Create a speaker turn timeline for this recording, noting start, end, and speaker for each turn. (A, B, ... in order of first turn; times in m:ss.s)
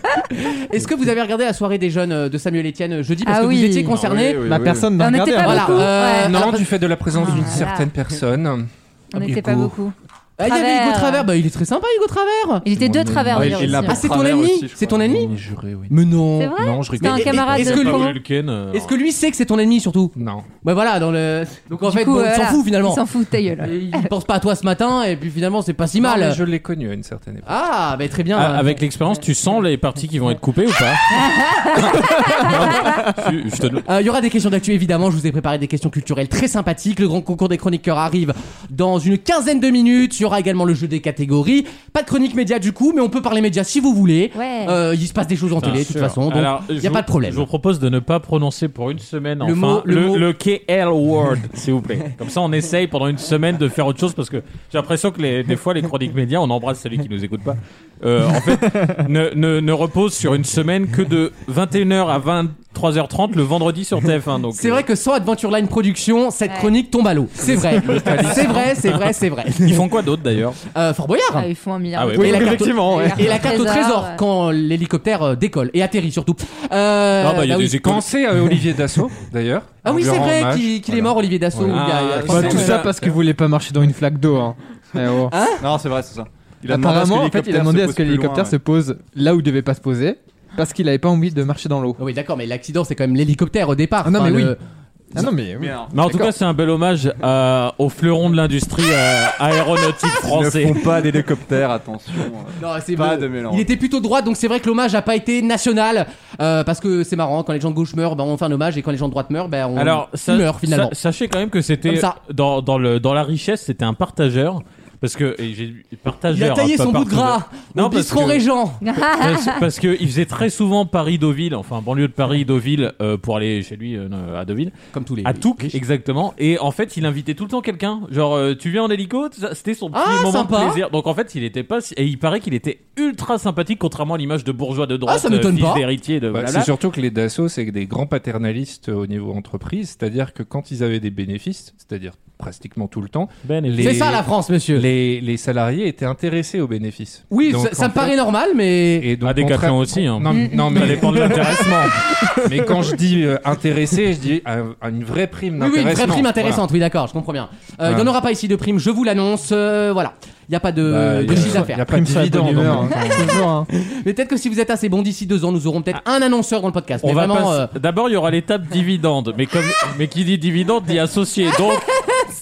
0:00.3-0:04.4 A
0:03.2-0:04.0 B
0:04.0-0:04.9 C
0:04.4-0:06.0 D
0:05.0-0:06.4 B
0:05.4-0:06.7 A
0:06.1-0:09.7 E
0:07.1-0:07.9 B
0:09.1-0:11.3 B
0:10.4-0:12.6 A
0:12.6-0:14.0 B
0:12.7-0:13.8 E
0:13.3-0:15.4 C
0:13.8-0:15.3 A
0:14.9-0:16.0 E
0:15.9-0:18.2 A
0:16.4-0:18.1 B
0:16.6-0:17.6 E
0:17.1-0:18.9 F
0:18.7-0:23.0 A
0:20.2-0:20.5 E
0:21.8-0:24.1 B
0:23.6-0:26.4 A
0:26.0-0:27.5 E
0:27.4-0:28.7 A
0:28.3-0:33.8 F
0:31.3-0:33.0 B
0:33.8-0:47.4 A
0:44.3-0:44.8 B
0:45.6-1:04.8 F
0:45.6-0:46.2 D
0:49.4-0:50.2 A
1:04.6-1:09.8 A
1:06.5-1:06.7 B
1:07.4-1:08.7 E
1:07.8-1:08.4 F
1:09.6-1:10.6 F
1:10.7-1:11.5 A
1:11.3-1:14.2 B
1:12.0-1:12.8 F
1:12.2-1:17.8 A
1:12.2-1:13.4 C
1:17.2-1:18.1 F
1:17.8-1:21.8 E
1:19.8-1:22.7 A
1:21.7-1:23.1 F
1:22.3-1:25.3 D
1:25.3-1:25.6 A
1:25.6-1:28.6 C
1:26.7-1:32.0 D
1:32.0-1:34.6 A
1:34.0-1:34.5 D
1:35.1-1:36.3 D
1:35.2-1:35.9 C
1:35.9-1:40.9 F
1:40.2-1:43.7 C
1:42.6-1:50.9 A
1:49.8-2:04.7 F
1:51.8-1:52.2 A
1:56.3-1:58.8 A
1:58.8-1:59.6 B
2:04.9-2:05.8 A
2:05.2-2:16.7 F
2:09.9-2:10.8 A
2:15.0-2:15.8 A
2:16.3-2:28.2 E
2:23.4-2:24.0 F
2:23.8-2:24.8 A
2:27.3-2:29.0 A
2:29.0-2:31.7 E
2:29.2-2:32.0 F
2:30.3-2:30.7 B
2:32.4-2:36.6 E
2:35.6-2:41.8 A
2:37.8-2:38.1 E
2:40.8-2:43.2 E
2:41.3-2:43.7 D
2:43.7-2:47.7 A
2:47.0-2:51.9 F